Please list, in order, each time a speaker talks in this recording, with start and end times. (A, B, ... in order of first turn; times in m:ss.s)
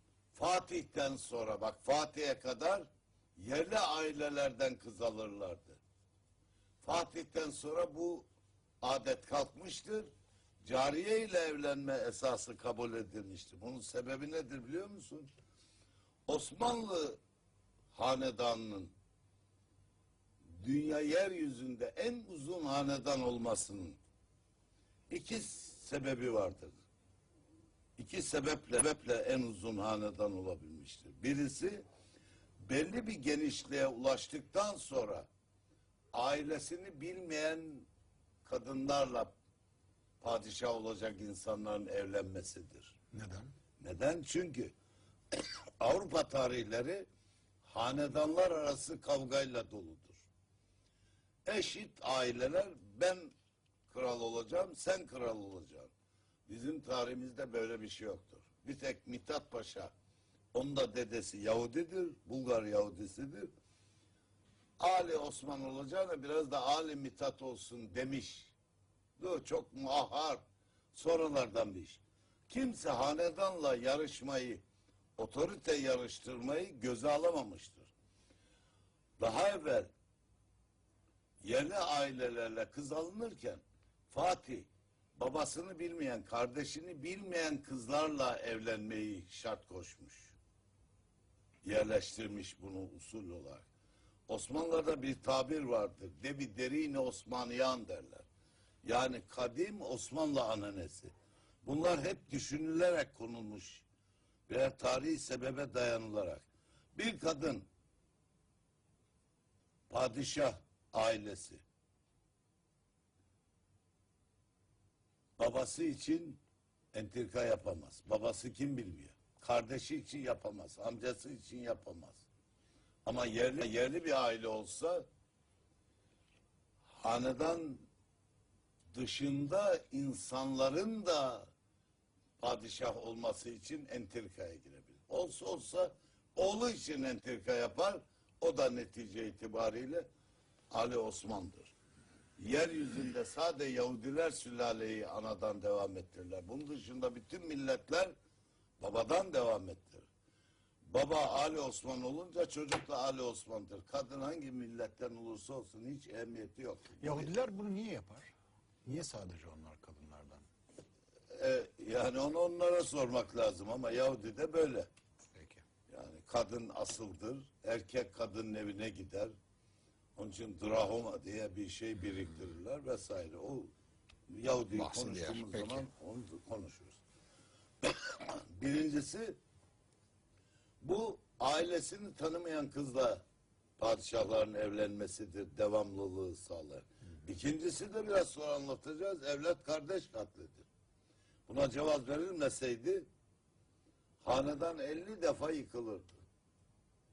0:00.3-0:05.8 A
0:06.8-0:08.3 A
0:08.8-0:10.1 A
0:10.6-0:15.3 A
0:16.3-0:17.2 A
0:17.9-0:18.9 A
0:20.5-0:24.0 A
0:25.1-0:26.8 A
0:28.0-0:31.8 A
0:32.6-0:35.3 A
0:36.1-0:37.9 A
0:38.4-0:39.3 A
0:40.2-0:43.0 A
0:43.1-0:43.5 B
0:43.8-0:44.7 A
0:45.3-0:47.0 A
0:47.6-0:50.2 A
0:51.4-0:53.3 A
0:53.9-0:55.9 A
0:56.5-0:59.9 A
1:00.5-1:03.5 A
1:04.8-1:08.5 A
1:09.2-1:10.4 A
1:10.9-1:14.6 A
1:15.2-1:17.9 A
1:19.2-1:19.9 A
1:21.4-1:30.4 A
1:31.6-1:33.7 A
1:34.3-1:38.2 A
1:38.8-1:41.1 A
1:41.6-1:43.8 A
1:44.5-1:47.7 A
1:49.9-1:51.6 A
1:55.4-1:56.4 A
1:56.9-2:02.2 A
2:03.0-2:05.0 A
2:06.9-2:07.8 A
2:08.9-2:11.5 A
2:12.4-2:20.1 A
2:20.7-2:21.7 A
2:22.4-2:28.1 A
2:28.8-2:30.1 A
2:30.8-2:37.3 A
2:37.0-2:38.3 B
2:38.8-2:40.4 B
2:41.3-2:44.9 A
2:45.3-2:45.6 B
2:45.9-2:49.3 A
2:50.2-2:53.7 A
2:54.3-2:57.0 A
2:54.7-2:55.8 B
2:57.8-2:59.4 A
3:00.8-3:03.2 A
3:03.8-3:10.7 A
3:11.5-3:13.1 A
3:14.2-3:16.2 A